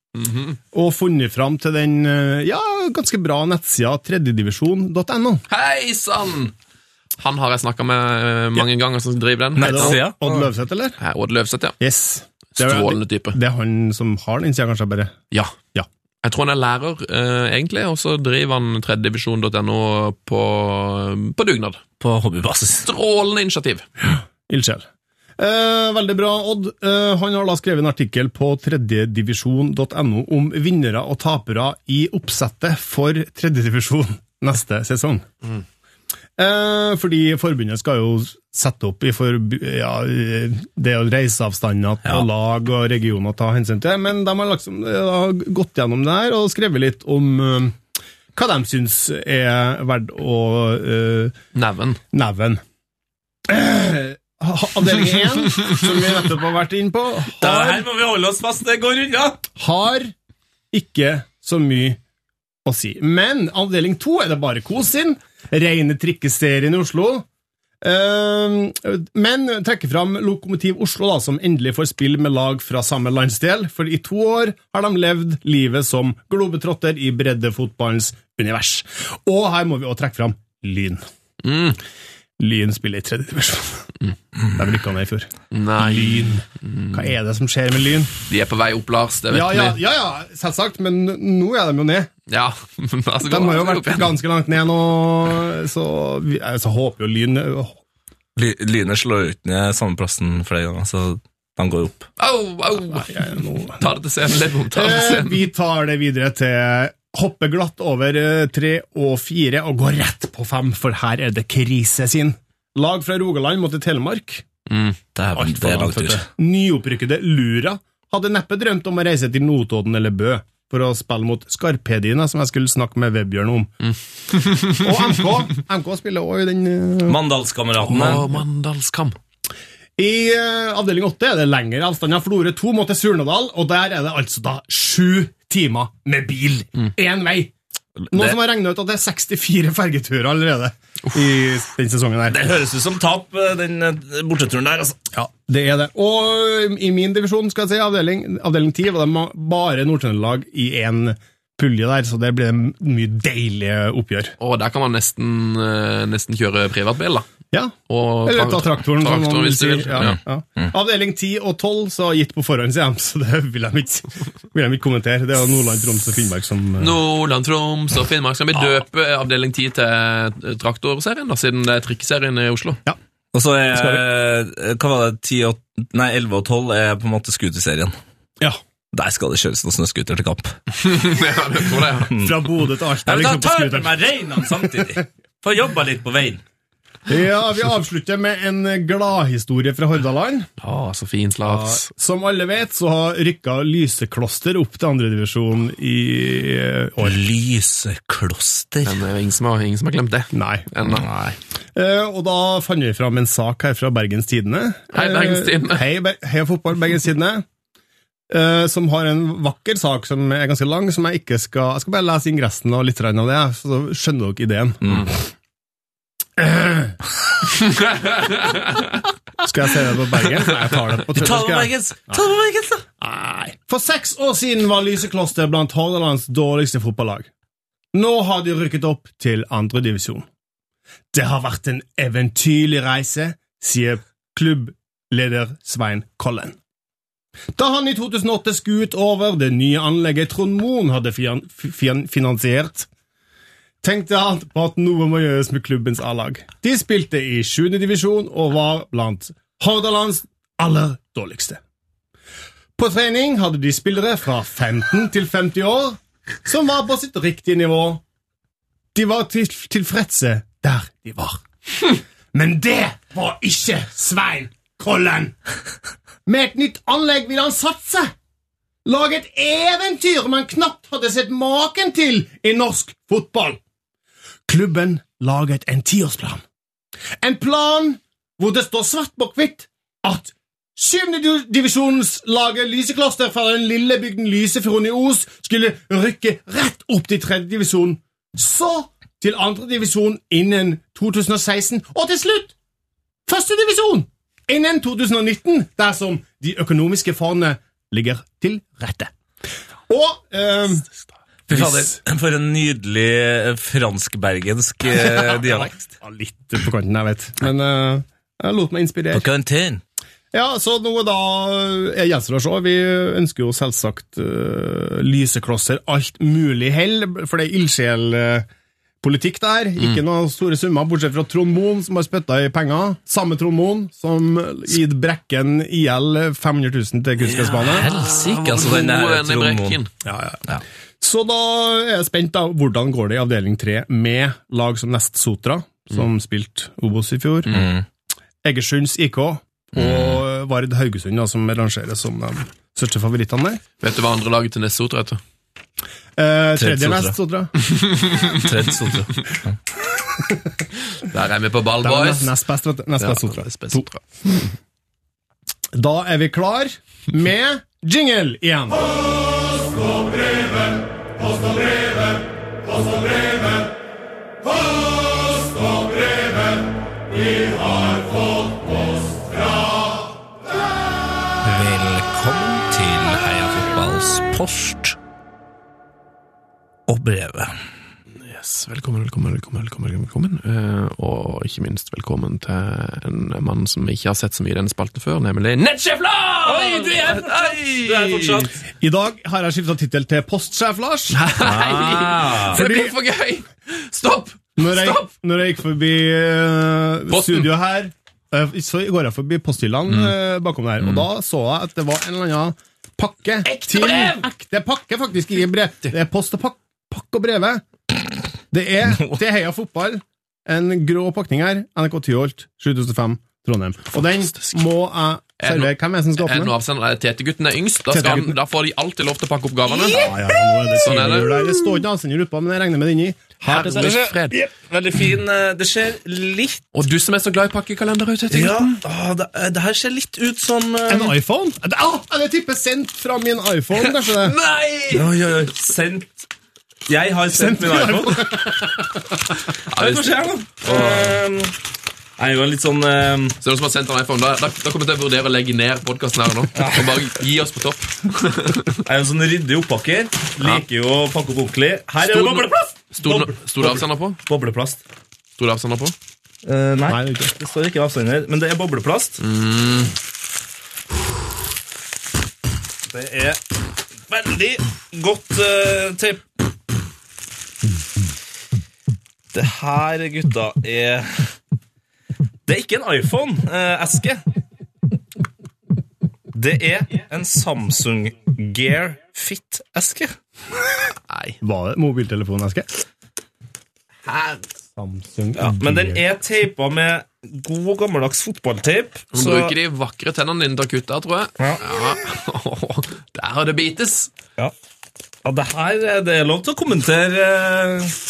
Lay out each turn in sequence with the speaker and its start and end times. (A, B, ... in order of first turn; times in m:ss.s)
0:00.2-0:00.6 A
0:00.7-0:05.4 B
0:05.5-0:06.5 A
0:07.2-0:10.0 A
0:09.6-0:10.5 C
0:09.6-0:11.0 B
0:11.0-0:11.8 A
0:11.8-0:15.2 B
0:12.6-0:13.4 A
0:16.2-0:21.8 A
0:22.0-0:22.9 C
0:22.8-0:23.9 A
0:24.0-0:24.8 B
0:25.4-0:35.3 B
0:36.4-0:47.8 B
0:48.3-0:51.3 B
0:51.5-0:52.0 A
0:52.1-0:52.6 B
0:53.5-0:57.8 B
0:57.4-0:59.4 C
0:59.6-1:00.1 B
1:00.7-1:02.0 B
1:02.6-1:07.2 B
1:07.8-1:21.0 B
1:21.4-1:21.8 A
1:22.4-1:23.9 B
1:24.6-1:28.1 B
1:25.5-1:27.0 A
1:28.3-1:29.8 A
1:29.3-1:32.1 B
1:32.3-1:34.1 A
1:33.2-1:37.8 B
1:38.4-1:42.1 C
1:42.2-1:43.3 A
1:42.9-1:43.8 B
1:43.8-1:45.4 A
1:44.7-1:54.4 B
1:54.7-1:55.0 A
1:55.2-1:56.3 C
1:55.3-2:03.7 B
2:03.8-2:04.8 A
2:04.7-2:07.2 B
2:07.0-2:08.2 C
2:07.9-2:09.2 A
2:10.0-2:17.5 B
2:18.0-2:18.4 C
2:18.1-2:22.4 B
2:22.3-2:25.0 C
2:25.1-2:34.3 B
2:34.4-2:37.3 A
2:37.5-2:47.0 B
2:37.9-2:40.2 A
2:40.0-2:40.7 C
2:46.8-2:52.8 A
2:53.3-2:57.9 C
2:53.7-2:54.0 B
2:58.9-3:00.6 C
3:00.8-3:02.1 A
3:02.1-3:05.0 B
3:02.2-3:02.4 C
3:03.0-3:06.4 C
3:07.1-3:10.5 B
3:10.6-3:11.9 A
3:11.4-3:17.2 B
3:17.0-3:19.0 C
3:18.8-3:21.3 A
3:20.3-3:20.6 B
3:21.7-3:27.4 B
3:24.9-3:25.8 A
3:28.3-3:35.1 B
3:36.4-3:37.0 B
3:39.4-3:42.2 B
3:41.1-3:42.8 C
3:43.0-3:47.3 B
3:47.9-3:50.2 B
3:51.1-3:56.6 B
3:57.5-4:02.9 B
4:03.8-4:11.6 B
4:12.8-4:18.0 B
4:18.9-4:25.3 B
4:26.2-4:28.1 B
4:28.8-4:33.6 B
4:34.5-4:36.4 B
4:37.2-4:52.5 B
4:53.3-4:59.1 B
4:59.9-5:00.8 B
5:01.5-5:05.9 C
5:01.5-5:01.9 B
5:05.0-5:09.3 B
5:09.1-5:09.8 C
5:10.3-5:18.4 B
5:19.0-5:27.9 B
5:27.2-5:29.8 C
5:27.8-5:29.9 A
5:30.0-5:30.4 B
5:31.0-5:37.6 B
5:37.5-5:37.8 C
5:38.4-5:43.6 B
5:39.7-5:40.2 C
5:43.8-5:45.2 A
5:46.2-5:47.5 B
5:46.6-5:47.2 C
5:47.7-5:48.4 A
5:48.3-5:49.6 C
5:51.1-5:52.3 A
5:51.8-5:53.8 B
5:53.0-5:54.4 A
5:55.7-5:58.9 B
6:11.4-6:15.0 C
6:16.9-6:17.6 C
6:18.2-6:28.5 A
6:26.4-6:28.5 C
6:28.8-6:31.2 B
6:31.1-6:35.1 A
6:31.4-6:32.6 C
6:32.5-6:32.9 B
6:34.6-6:47.6 B
6:37.1-6:37.5 A
6:43.5-6:44.2 C
6:48.5-6:56.5 B
6:54.3-6:54.6 A
6:55.4-7:00.0 A
6:57.9-6:58.4 B
6:59.8-7:00.3 C
6:59.8-7:03.4 B
7:00.8-7:01.3 A
7:03.4-7:04.4 A
7:03.5-7:06.6 C
7:06.7-7:08.8 A
7:08.3-7:11.1 C
7:10.9-7:14.4 B
7:14.2-7:15.0 A
7:14.9-7:16.1 C
7:16.9-7:18.2 C
7:17.3-7:18.6 B
7:19.7-7:21.2 A
7:19.8-7:21.5 C
7:22.2-7:23.4 C
7:23.4-7:28.7 A
7:26.5-7:27.0 C
7:28.8-7:34.8 C
7:32.0-7:34.2 A
7:35.4-7:35.9 A
7:36.4-7:39.2 C
7:36.9-7:37.3 B
7:39.2-7:39.9 A
7:42.9-7:43.4 C
7:44.1-7:46.2 C
7:49.3-7:51.3 C
7:52.4-7:54.2 C
7:56.3-8:00.1 C
8:01.1-8:01.4 A
8:01.4-8:02.7 B
8:04.1-8:04.3 A
8:04.7-8:06.0 B
8:05.4-8:09.5 C
8:09.1-8:14.1 A
8:15.2-8:17.9 C